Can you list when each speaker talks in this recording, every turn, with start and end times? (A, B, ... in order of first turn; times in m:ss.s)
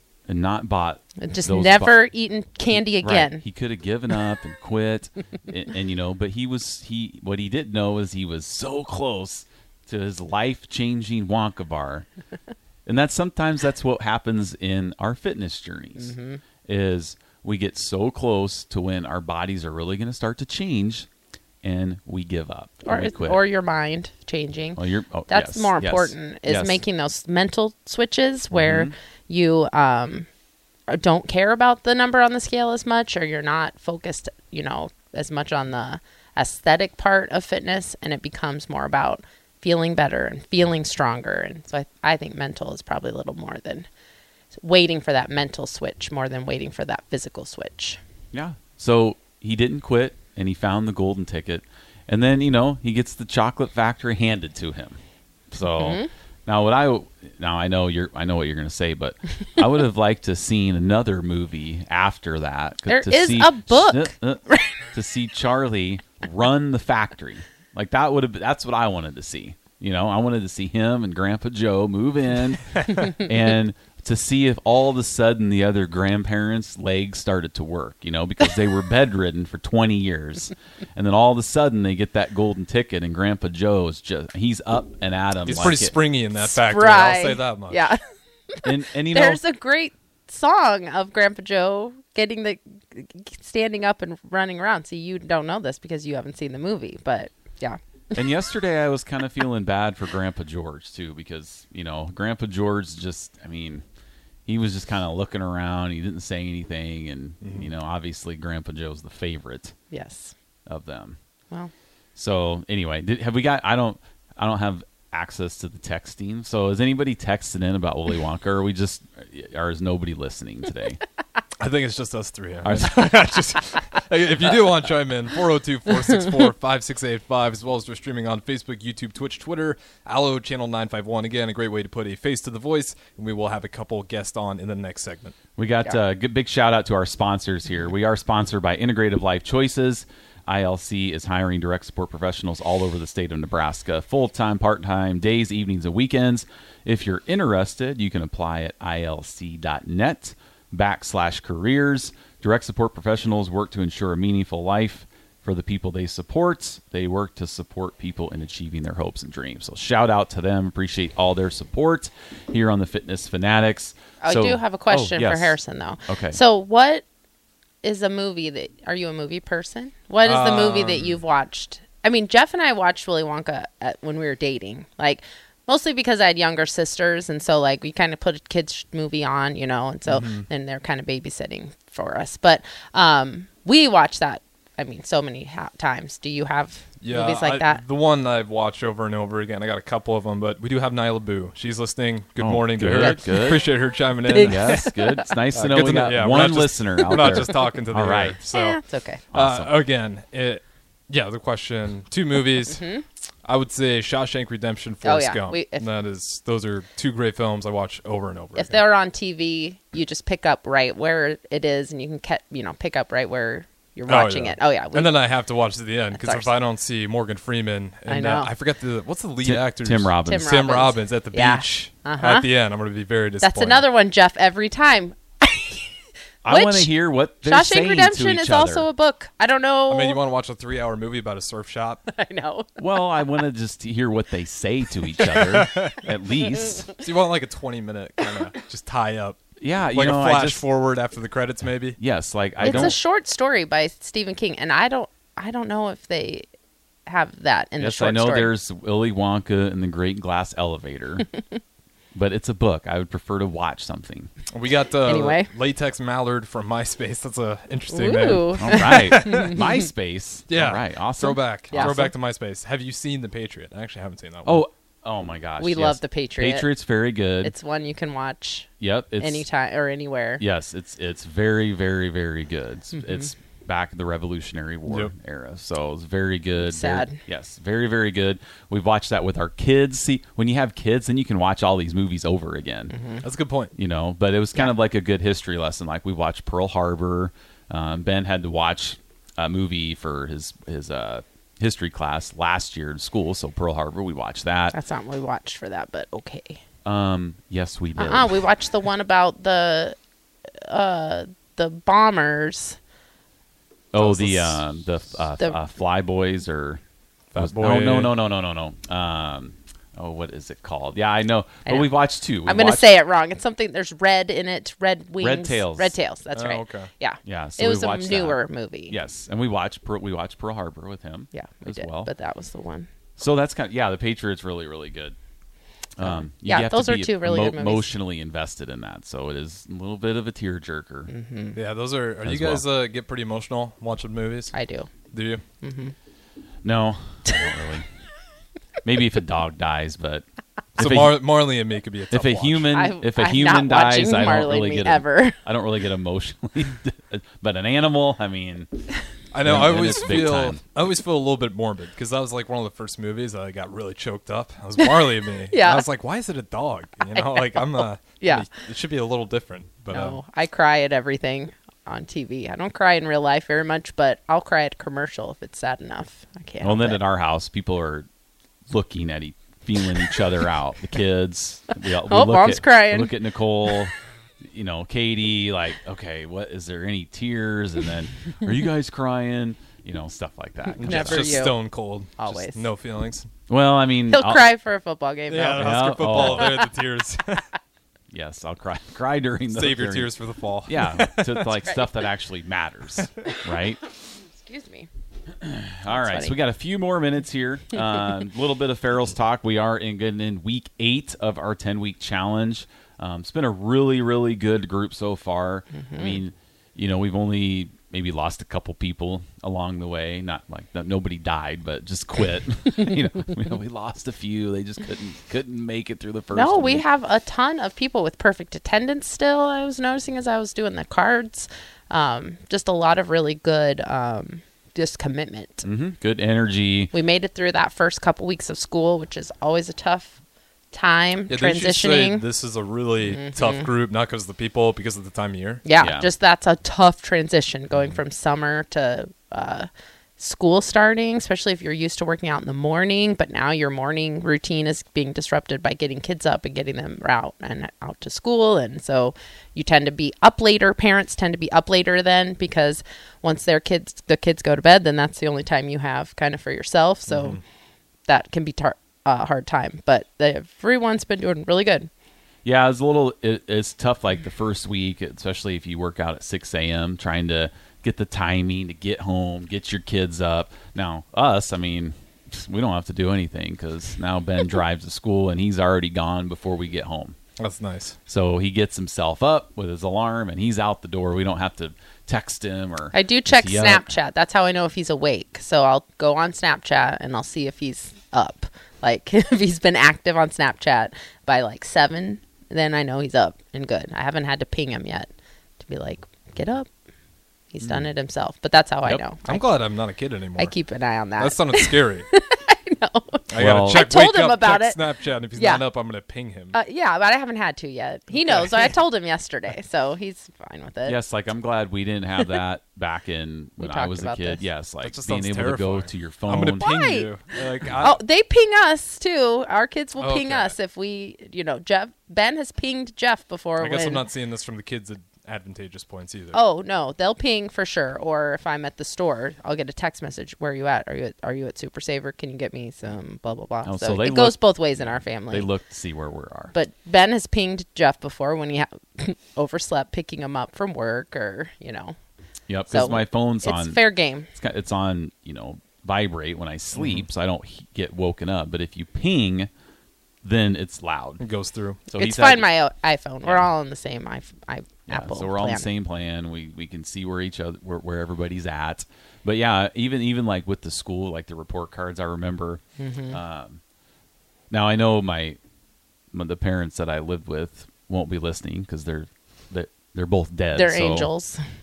0:00.3-0:02.0 A
0:01.2-0:03.4 B
0:02.7-0:12.1 A
0:12.9-0:16.1 A
0:16.0-0:16.4 B
0:16.6-0:21.1 A
0:21.6-0:23.4 A
0:22.8-0:30.3 B
0:24.8-0:26.8 A
0:28.5-0:28.9 A
0:30.9-0:43.9 B
0:44.5-0:48.0 B
0:48.3-0:55.0 A
0:55.5-1:26.0 A
0:55.8-0:56.1 B
1:02.9-1:04.8 B
1:25.4-1:27.9 C
1:26.5-1:28.0 B
1:28.5-1:37.8 B
1:28.6-1:29.4 A
1:38.1-1:43.8 A
1:44.5-1:49.8 A
1:47.4-1:47.7 C
1:49.9-1:50.3 B
1:50.7-1:51.2 A
1:52.2-2:01.0 A
2:01.6-2:15.4 C
2:02.6-2:03.4 A
2:15.6-2:46.4 A
2:44.2-2:47.0 B
2:47.8-3:07.8 B
2:50.2-2:51.2 C
3:00.1-3:00.5 C
3:07.0-3:15.0 C
3:12.4-3:13.7 A
3:12.9-3:13.5 B
3:14.3-3:18.4 A
3:14.3-3:15.3 B
3:15.5-3:18.8 C
3:18.5-3:19.2 B
3:19.3-3:19.7 A
3:19.3-3:22.8 C
3:22.7-3:23.0 B
3:23.4-3:28.8 C
3:25.0-3:25.9 B
3:28.6-3:35.2 B
3:34.1-3:43.9 C
3:36.1-3:36.5 B
3:38.1-3:38.5 B
3:39.4-3:40.5 A
3:40.3-3:42.5 B
3:43.4-3:45.9 B
3:46.4-3:48.9 A
3:46.5-3:46.9 B
3:47.4-3:50.2 B
3:49.9-3:52.0 C
3:52.1-3:52.8 B
3:52.8-3:56.9 A
3:55.4-3:56.0 C
3:56.6-3:57.0 B
3:57.0-3:59.4 C
3:59.6-4:00.6 A
3:59.9-4:02.0 C
4:02.0-4:03.0 A
4:02.6-4:02.9 C
4:02.6-4:06.5 B
4:07.1-4:08.5 B
4:07.8-4:11.3 A
4:12.1-4:14.3 A
4:14.5-4:19.6 C
4:15.1-4:15.5 B
4:17.9-4:19.6 B
4:18.6-4:22.0 A
4:20.5-4:24.6 C
4:21.7-4:22.1 B
4:24.4-4:27.5 A
4:25.6-4:26.7 B
4:27.4-4:28.7 B
4:28.8-4:29.4 A
4:29.2-4:30.4 B
4:30.4-4:43.0 A
4:33.0-4:33.3 B
4:34.9-4:35.1 C
4:36.6-4:37.2 B
4:42.9-4:43.2 B
4:43.2-4:43.7 C
4:43.8-4:54.8 A
4:54.7-4:56.6 B
4:56.8-4:58.3 A
4:58.0-5:00.0 B
5:00.6-5:02.8 B
5:03.9-5:06.8 A
5:04.0-5:04.6 C
5:07.3-5:08.1 C
5:07.4-5:12.9 A
5:11.7-5:11.9 B
5:12.4-5:19.0 B
5:15.2-5:16.0 A
5:16.4-5:16.9 C
5:17.2-5:22.1 A
5:21.3-5:22.9 B
5:23.2-5:25.2 A
5:26.0-5:31.1 A
5:26.0-5:27.9 B
5:31.1-5:31.6 B
5:31.6-5:34.5 C
5:32.2-5:32.7 A
5:34.5-5:34.9 B
5:35.1-5:35.4 C
5:35.6-5:35.9 B
5:36.6-5:37.9 A
5:38.8-5:40.2 A
5:40.8-5:41.3 A
5:40.8-5:42.7 C
5:42.1-5:48.7 A
5:42.7-5:45.4 B
5:49.3-6:00.2 C
5:49.4-5:50.6 A
5:54.8-5:55.9 B
5:57.1-5:58.5 B
5:59.9-6:07.0 B
6:06.6-6:08.1 A
6:08.7-6:21.5 A
6:12.1-6:13.1 B
6:20.8-6:21.6 B
6:20.8-6:23.3 C
6:22.2-6:22.7 B
6:23.5-6:24.5 A
6:24.1-6:26.6 B
6:25.3-6:27.4 C
6:25.6-6:26.6 A
6:28.1-6:30.1 A
6:29.5-6:31.6 C
6:30.7-6:33.8 A
6:34.4-6:34.9 B
6:35.4-6:56.8 A
6:35.9-6:36.4 B
6:45.8-6:46.2 B
6:56.3-7:05.7 B
7:05.6-7:06.9 A
7:06.9-7:10.2 B
7:10.7-7:12.2 B
7:11.3-7:15.6 C
7:13.1-7:13.7 B
7:15.6-7:37.4 B
7:15.8-7:16.1 A
7:37.1-7:37.4 C
7:38.1-7:41.9 B
7:42.4-7:57.2 A
7:57.4-7:58.0 C
7:58.1-8:03.9 A
8:02.9-8:16.7 B
8:17.5-8:19.4 B
8:19.2-8:20.5 C
8:20.4-8:24.8 B
8:21.2-8:22.1 C
8:23.3-8:26.6 C
8:23.4-8:23.9 A
8:25.4-8:25.6 B
8:26.5-8:31.0 B
8:28.1-8:28.7 C
8:30.9-8:36.7 A
8:33.6-8:34.4 B
8:34.8-8:38.0 C
8:36.6-8:37.1 B
8:37.8-8:44.0 B
8:40.0-8:40.5 C
8:43.6-8:46.4 C
8:46.3-8:55.5 B
8:53.6-8:56.5 A
8:56.5-9:02.0 B
9:02.5-9:03.8 A
9:02.7-9:04.3 B
9:04.4-9:09.5 A
9:06.8-9:07.1 C
9:10.2-9:11.2 A
9:11.2-9:11.8 C
9:11.9-9:15.7 B
9:11.9-9:12.5 A
9:13.2-9:13.5 A
9:14.9-9:23.6 A
9:22.8-9:23.2 B
9:24.5-9:25.4 A
9:26.1-9:31.1 A
9:30.6-9:31.4 B